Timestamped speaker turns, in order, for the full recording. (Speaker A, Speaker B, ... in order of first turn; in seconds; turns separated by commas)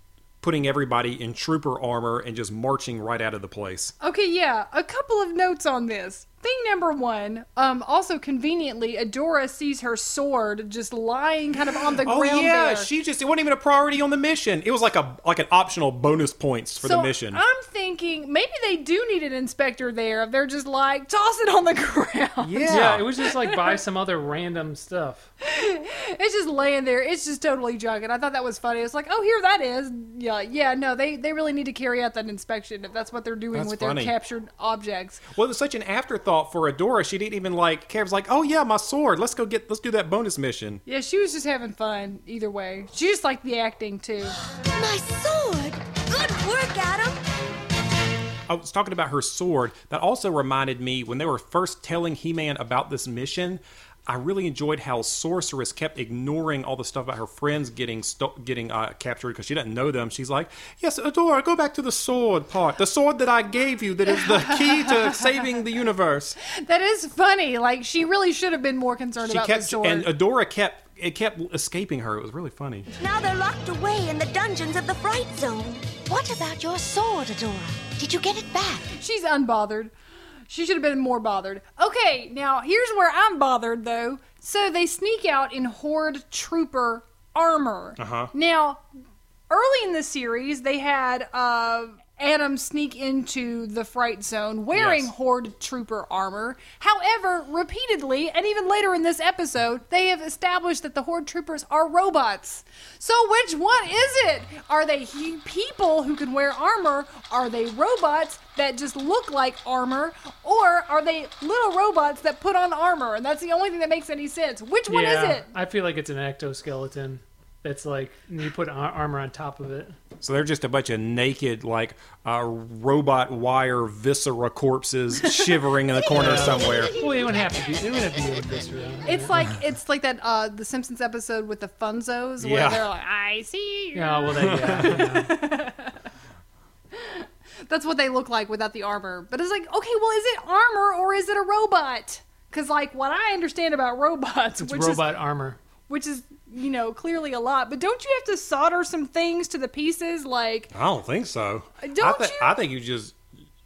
Speaker A: 0.4-3.9, Speaker B: 4.0-12.9, Speaker A: 12.0-17.4, Speaker B: 16.8-23.8, Speaker A: 22.4-23.1, Speaker C: 22.7-25.3, Speaker B: 25.4-35.3, Speaker A: 33.5-34.1, Speaker A: 35.3-40.8, Speaker B: 40.9-44.3, Speaker D: 44.7-47.2, Speaker A: 48.5-66.4, Speaker B: 64.1-65.5, Speaker B: 66.5-70.1, Speaker A: 69.2-72.9, Speaker D: 73.0-78.8, Speaker B: 78.9-79.9, Speaker B: 80.5-88.8, Speaker A: 88.0-88.3, Speaker B: 89.5-115.5, Speaker A: 94.7-95.1, Speaker C: 114.9-119.9, Speaker A: 120.2-126.9, Speaker B: 126.0-127.3, Speaker C: 126.1-129.3, Speaker B: 129.0-136.0, Speaker A: 132.4-132.8, Speaker C: 133.9-135.3, Speaker A: 134.4-135.0, Speaker B: 136.9-145.1, Speaker C: 144.6-145.6, Speaker B: 145.9-150.7, Speaker A: 150.7-153.2, Speaker B: 151.8-152.6